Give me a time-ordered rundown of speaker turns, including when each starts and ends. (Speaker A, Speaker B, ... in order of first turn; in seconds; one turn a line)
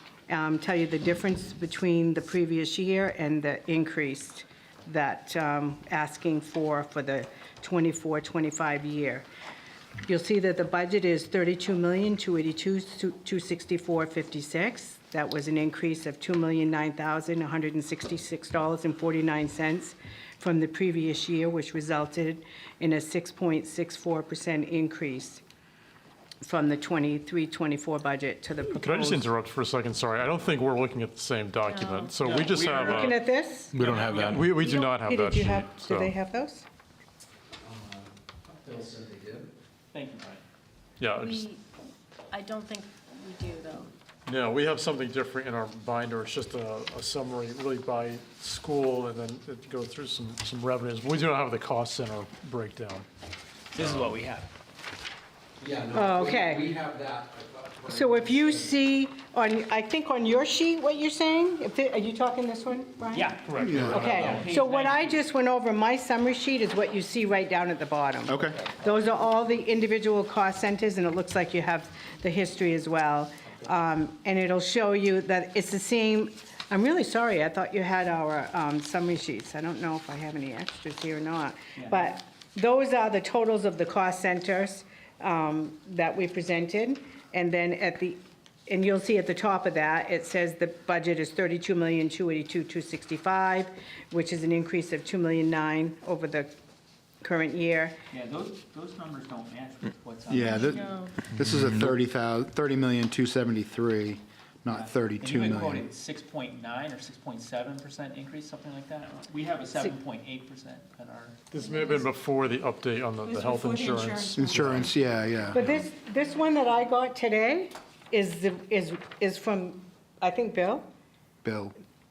Speaker A: 0.3-9.2
Speaker A: 10.1-25.4
Speaker A: 26.4-29.2
Speaker B: 28.7-36.1
Speaker C: 31.6-32.4
Speaker D: 32.2-33.1
Speaker A: 32.8-33.8
Speaker E: 33.8-34.5
Speaker D: 33.9-34.4
Speaker A: 34.4-36.7
Speaker E: 37.6-39.5
Speaker D: 39.9-40.4
Speaker B: 41.0-41.5
Speaker C: 41.2-41.6
Speaker C: 42.3-43.9
Speaker B: 44.2-53.0
Speaker D: 53.7-54.5
Speaker B: 53.8-54.1
Speaker E: 55.6-58.7
Speaker A: 55.9-56.7
Speaker A: 57.9-96.5
Speaker D: 63.1-65.2
Speaker B: 63.5-64.0
Speaker F: 63.6-64.0
Speaker E: 64.1-64.5
Speaker F: 68.3-68.6
Speaker A: 97.2-98.0
Speaker D: 98.1-100.8
Speaker F: 100.3-105.8
Speaker C: 100.3-101.1
Speaker D: 104.7-111.4
Speaker B: 111.5-115.0
Speaker F: 114.3-115.7
Speaker A: 115.5-120.9
Speaker F: 121.4-121.7